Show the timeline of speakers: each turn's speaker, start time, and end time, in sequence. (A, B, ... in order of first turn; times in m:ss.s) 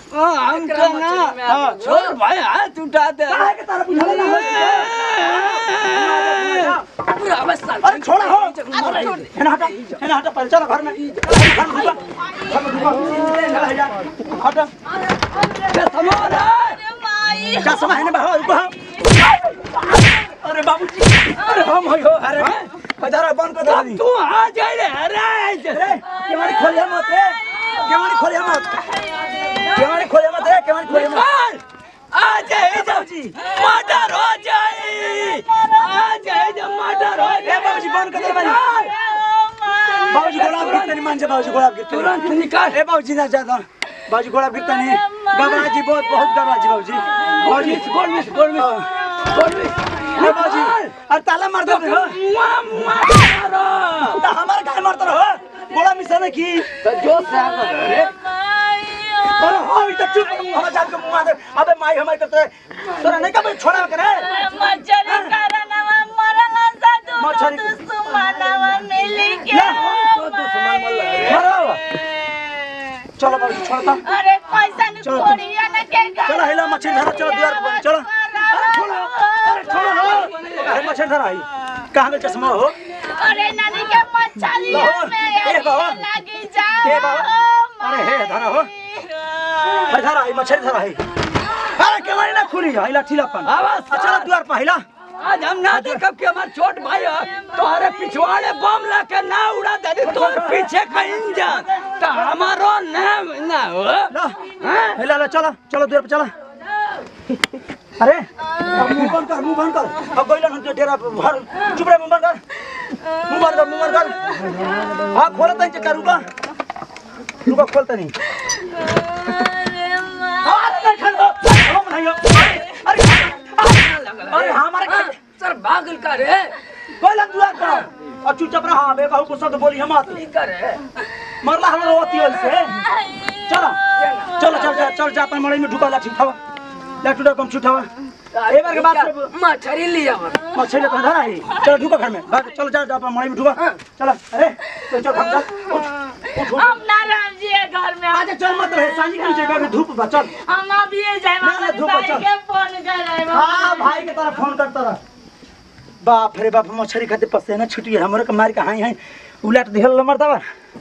0:00.1-0:06.8 A
0:00.5-0:02.2 B
0:01.4-0:01.8 C
0:03.3-0:06.8 C
0:04.0-0:05.6 B
0:07.1-0:10.0 B
0:07.8-0:14.7 C
0:08.7-0:09.1 D
0:11.0-0:12.0 B
0:11.8-0:13.3 D
0:12.7-0:13.7 B
0:14.9-0:15.8 B
0:15.7-0:16.8 A
0:16.4-0:19.3 D
0:17.6-0:24.0 C
0:21.4-0:21.8 B
0:22.4-0:22.7 A
0:23.6-0:25.9 A
0:25.7-0:28.7 C
0:26.1-0:26.9 B
0:27.5-0:27.9 B
0:28.7-0:29.7 D
0:29.0-0:30.1 B
0:29.7-0:31.3 C
0:30.9-0:38.9 A
0:32.5-0:33.4 C
0:37.4-0:38.6 C
0:37.8-0:38.6 B
0:38.7-0:40.1 D
0:39.9-0:40.4 B
0:40.0-0:42.8 A
0:40.1-0:47.9 C
0:45.1-0:45.4 D
0:47.4-0:50.9 A
0:48.6-0:48.9 C
0:49.1-0:49.4 D
0:49.3-0:50.4 B
0:50.2-0:52.2 C
0:51.6-0:54.2 A
0:54.1-0:56.7 C
0:56.8-0:58.1 A
0:57.2-1:00.7 D
0:59.4-1:04.3 C
1:04.1-1:11.2 D
1:05.1-1:05.4 C
1:07.2-1:07.8 C
1:09.1-1:09.4 B
1:09.5-1:09.8 C
1:09.5-1:11.5 A
1:11.2-1:11.8 C
1:11.9-1:12.9 D
1:13.2-1:14.0 C
1:14.0-1:20.6 D
1:15.0-1:15.4 C
1:16.2-1:18.1 C
1:18.5-1:20.9 A
1:19.4-1:22.8 C
1:22.9-1:29.9 D
1:24.6-1:26.0 C
1:26.8-1:28.7 C
1:29.8-1:31.0 C
1:31.7-1:34.8 C
1:33.4-1:34.3 A
1:35.2-1:45.0 A
1:35.7-1:36.0 C
1:40.0-1:42.1 C
1:44.1-1:44.4 C
1:45.0-1:46.3 C
1:48.0-1:52.4 C
1:53.3-1:54.4 C
1:54.5-1:55.1 B
1:55.0-1:56.3 C
1:57.4-1:58.2 C
1:58.9-2:00.9 B
2:00.4-2:05.1 C
2:03.6-2:04.5 A
2:04.3-2:06.6 B
2:07.0-2:10.2 C
2:07.6-2:07.9 B
2:10.1-2:10.9 B
2:11.4-2:12.8 C
2:12.3-2:12.6 B
2:12.8-2:13.8 D
2:13.5-2:13.8 C
2:14.0-2:14.9 B
2:14.4-2:16.4 C
2:17.0-2:17.9 C
2:18.3-2:20.4 B
2:18.5-2:19.3 C
2:20.5-2:26.7 C
2:21.5-2:21.8 D
2:24.8-2:29.8 D
2:28.1-2:30.3 C
2:30.3-2:34.1 D
2:31.4-2:32.2 C
2:33.3-2:35.0 C
2:36.0-2:40.4 C